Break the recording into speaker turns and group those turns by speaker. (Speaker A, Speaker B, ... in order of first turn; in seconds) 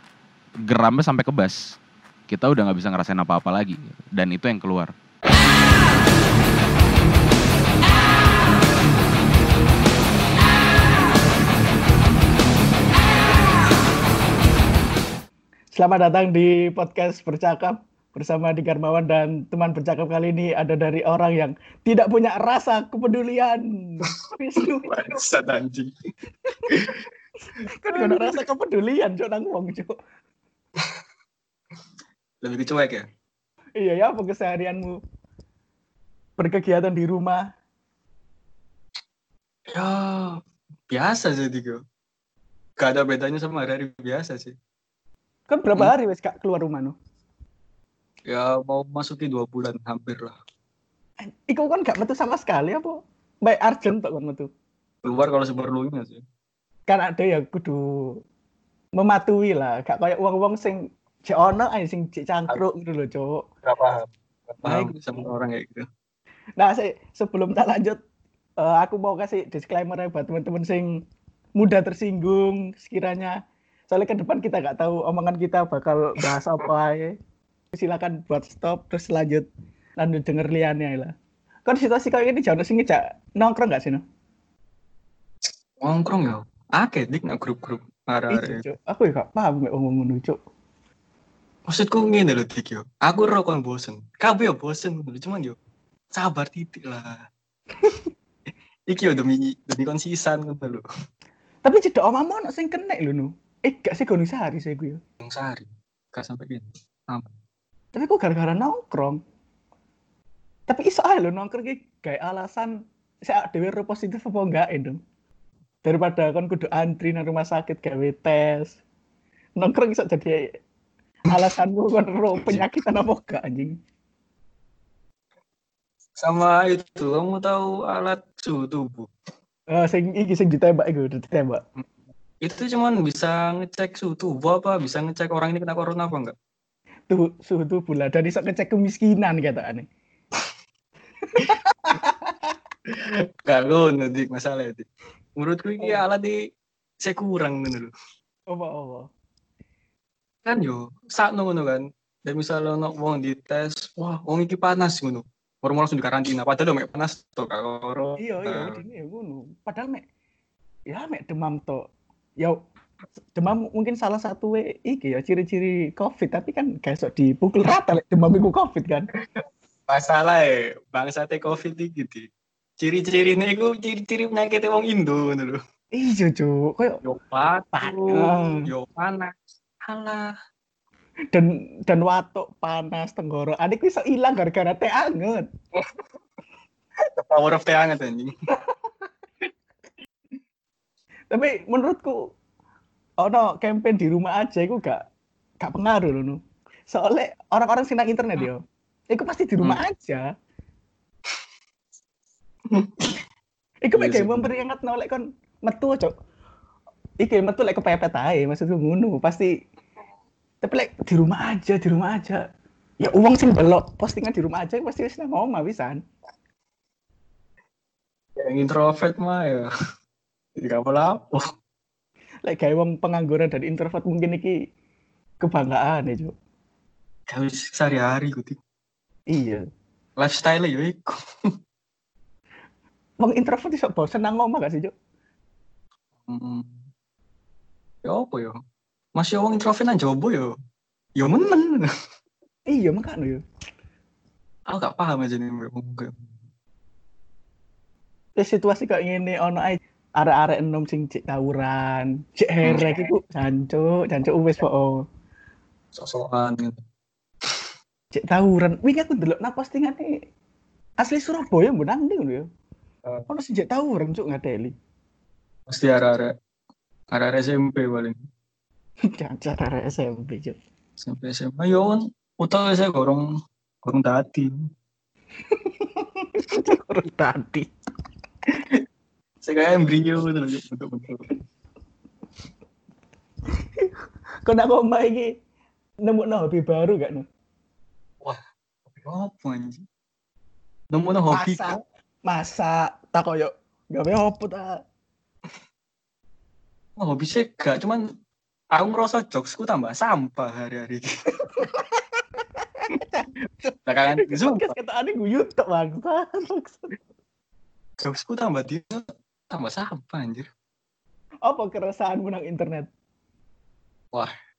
Speaker A: 0.7-1.6, 2.3-4.9
Speaker B: 15.7-25.0, 27.6-29.9, 33.8-35.0, 36.4-37.4, 45.5-47.0, 51.2-54.5, 56.9-58.2, 59.0-63.4, 64.6-65.2, 66.6-68.0, 68.6-70.9, 71.6-73.3, 73.9-77.1, 77.7-79.5, 80.0-81.1, 81.7-84.0, 88.3-90.4, 101.6-105.0, 108.0-109.2, 110.7-115.0, 115.8-118.8, 119.6-120.4, 121.3-123.8, 129.7-131.6, 137.1-139.9, 141.3-142.5, 148.5-149.1, 158.2-160.0, 160.9-161.8, 163.3-169.1, 175.9-177.0, 177.8-178.7, 181.3-185.5, 191.3-192.2, 193.2-195.0, 195.6-200.3, 203.9-206.1, 207.2-209.5, 210.6-212.4, 213.0-216.0, 222.5-224.5, 225.4-226.3, 229.3-229.7, 233.2-234.9, 242.7-243.4, 248.4-255.0, 258.1-260.1, 261.0-262.4, 263.3-264.7, 269.1-270.6, 275.6-277.7, 284.5-285.3, 286.1-287.3, 291.3-294.8, 302.4-307.0, 311.4-312.9
Speaker C: 24.1-25.9, 26.7-27.1, 27.9-28.4, 32.4-33.1, 39.7-41.8, 42.8-44.6, 48.3-50.4, 55.0-56.2, 63.6-65.9, 85.5-88.6, 91.7-95.6, 96.1-97.3, 98.9-100.8, 105.2-107.3, 122.4-122.7, 126.2-129.1, 132.4-136.3, 142.9-146.4, 147.0-147.9, 150.4-158.8, 169.9-172.3, 172.8-175.6, 177.0-179.3, 179.9-180.3, 187.1-188.3, 202.7-203.2, 203.9-204.5, 218.4-219.7, 220.6-221.5, 227.3-228.6, 230.2-231.5, 236.3-236.8, 238.1-238.6, 239.2-240.5, 241.2-241.9, 244.7-246.3, 252.6-253.1, 255.9-256.8, 265.7-266.3, 267.1-268.2, 271.0-273.3, 273.9-274.7, 278.5-278.8, 279.4-281.4, 288.2-289.9, 290.9-291.7, 297.0-298.0, 298.7-301.1, 303.9-304.8, 308.0-310.5